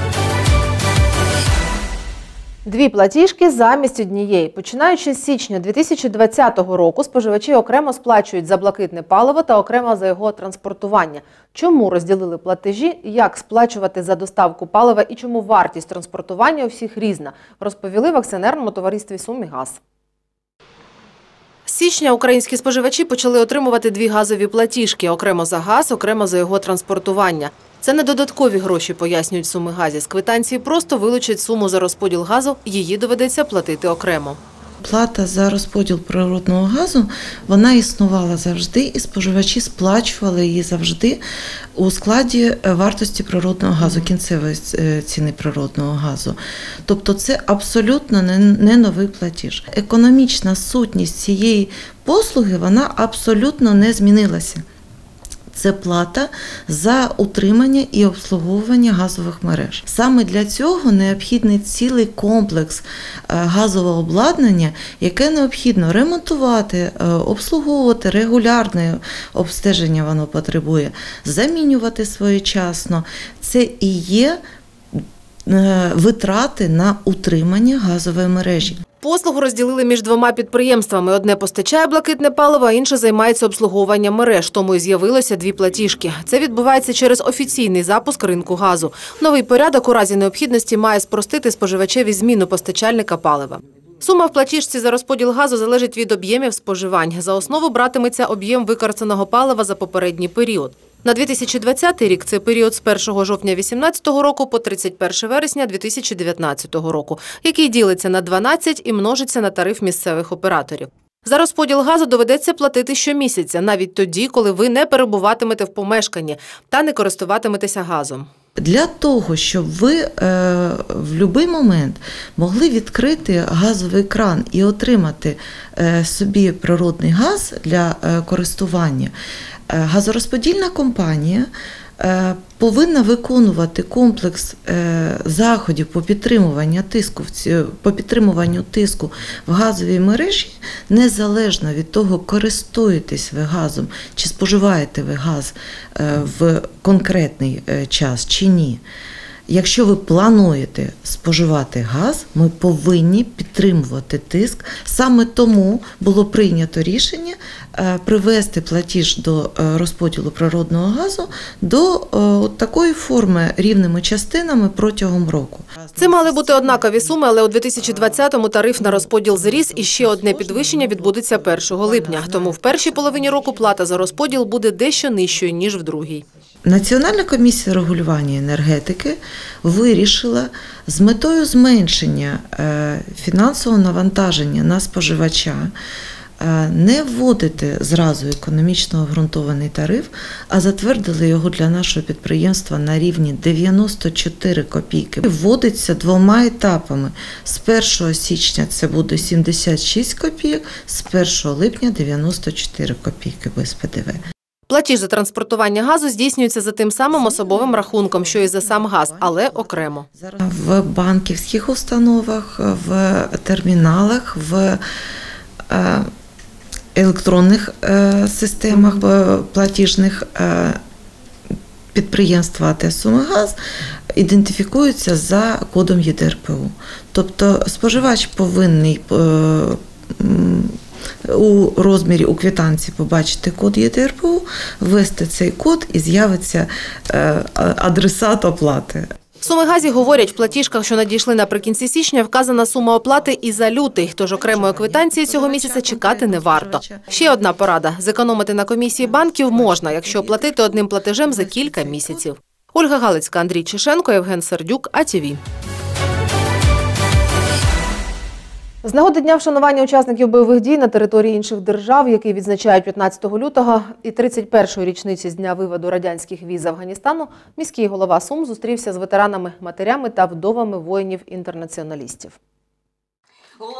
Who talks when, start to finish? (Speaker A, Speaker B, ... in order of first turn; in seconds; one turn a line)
Speaker A: 2.6-19.8
Speaker A: 21.7-34.4
Speaker B: 34.8-41.2
Speaker B: 41.8-54.6
Speaker B: 55.5-74.4
Speaker B: 74.9-78.8
Speaker A: 79.0-118.3
Speaker B: 118.6-129.1
Speaker B: 129.7-148.8
Speaker B: 149.5-167.2
Speaker A: 166.0-176.2
Speaker B: 167.8-168.2
Speaker B: 168.8-173.6
Speaker B: 176.6-185.7
Speaker B: 186.4-204.2
Speaker A: 204.7-210.1
Speaker B: 207.1-214.8
Speaker B: 215.7-216.1
Speaker B: 216.9-220.8
Speaker B: 221.9-223.6
Speaker B: 224.1-239.1
Speaker A: 239.4-255.4
Speaker B: 244.3-247.3
Speaker B: 249.0-252.3
Speaker A: 258.8-272.4